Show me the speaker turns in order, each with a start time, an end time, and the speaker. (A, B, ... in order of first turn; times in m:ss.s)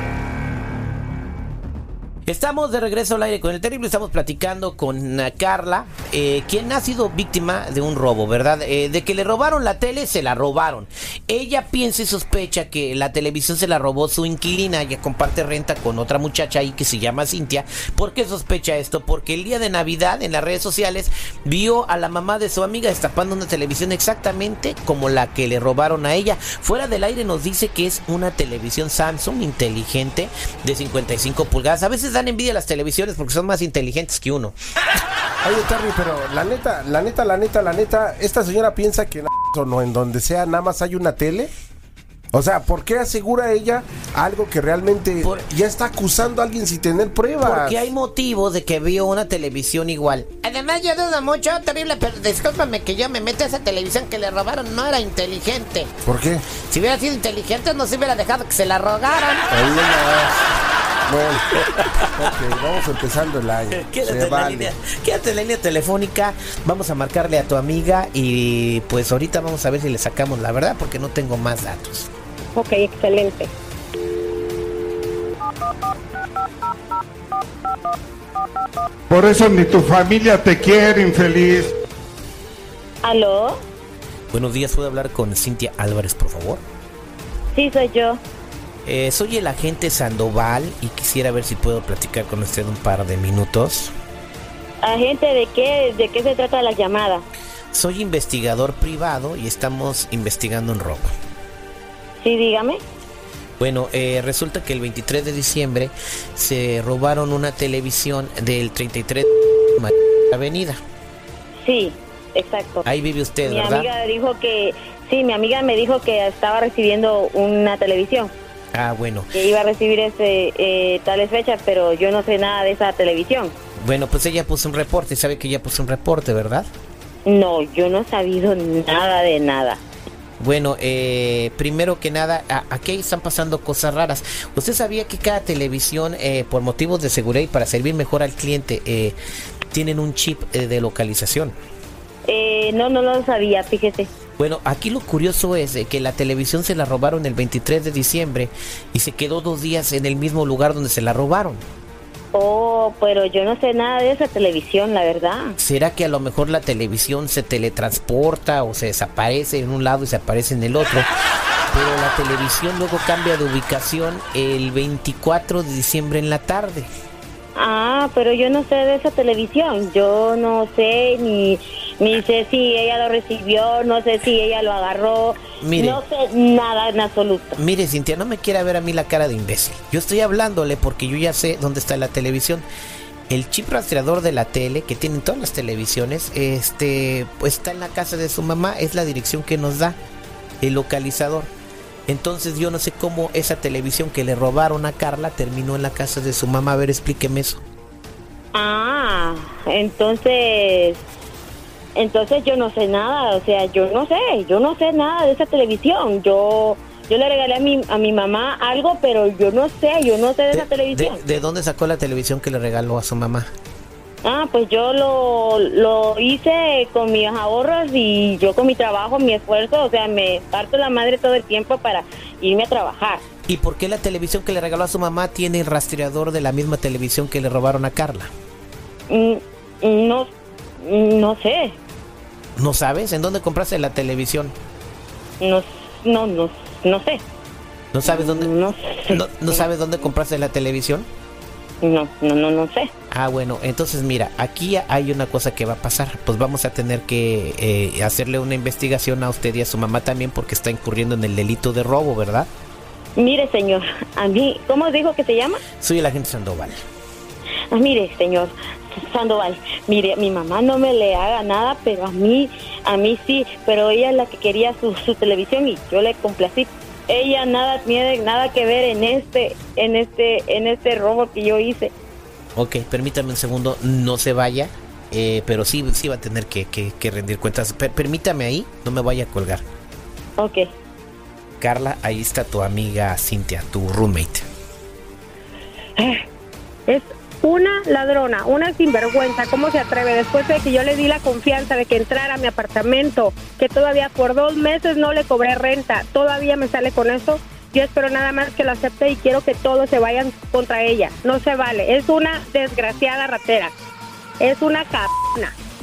0:02.3-0:34.6 A
0:35.4-0:41.5 B
0:42.3-0:47.9 B
0:47.4-0:55.9 A
0:56.0-0:56.5 B
0:56.5-0:59.5 A
0:59.5-1:00.5 B
1:01.1-1:01.5 B
1:01.6-1:02.3 A
1:02.1-1:04.7 B
1:03.7-1:12.1 A
1:12.6-1:13.5 C
1:19.1-1:21.7 D
1:23.0-1:23.6 E
1:24.3-1:26.6 A
1:27.5-1:28.2 E
1:28.8-1:33.9 A
1:34.8-1:37.2 E
1:37.7-1:41.1 A
1:42.2-1:42.8 E
1:43.6-1:50.8 A
1:51.6-1:52.9 E
1:52.8-1:53.9 A
1:53.4-1:58.3 E
1:58.7-1:59.3 A
1:59.3-2:03.6 E
2:03.8-2:06.7 A
2:07.2-2:09.8 E
2:10.4-2:19.2 A
2:19.7-2:21.6 A
2:22.3-2:24.1 E
2:24.4-2:31.6 A
2:32.3-2:35.6 E
2:35.6-2:41.1 A
2:41.7-2:46.9 A
2:47.6-2:57.6 E
2:55.6-2:56.0 A
2:57.6-3:02.7 A
3:03.3-3:10.0 A
3:10.6-3:11.5 A
3:12.1-3:17.6 A
3:18.5-3:21.0 E
3:22.0-3:31.2 E
3:30.5-3:33.5 A
3:34.2-3:43.2 E
3:43.5-3:48.3 A
3:49.1-3:51.8 E
3:52.6-3:54.5 A
3:55.4-3:57.2 E
3:57.9-3:58.5 A
3:58.0-4:00.1 E
3:59.1-4:01.1 A
4:01.8-4:02.9 E
4:03.1-4:12.5 A
4:13.2-4:15.6 E
4:15.8-4:16.8 A
4:17.7-4:31.9 E
4:32.6-4:39.6 A
4:40.4-4:40.7 E
4:41.6-4:44.5 A
4:46.0-4:46.2 C
4:46.9-5:03.7 C
5:04.4-5:05.5 C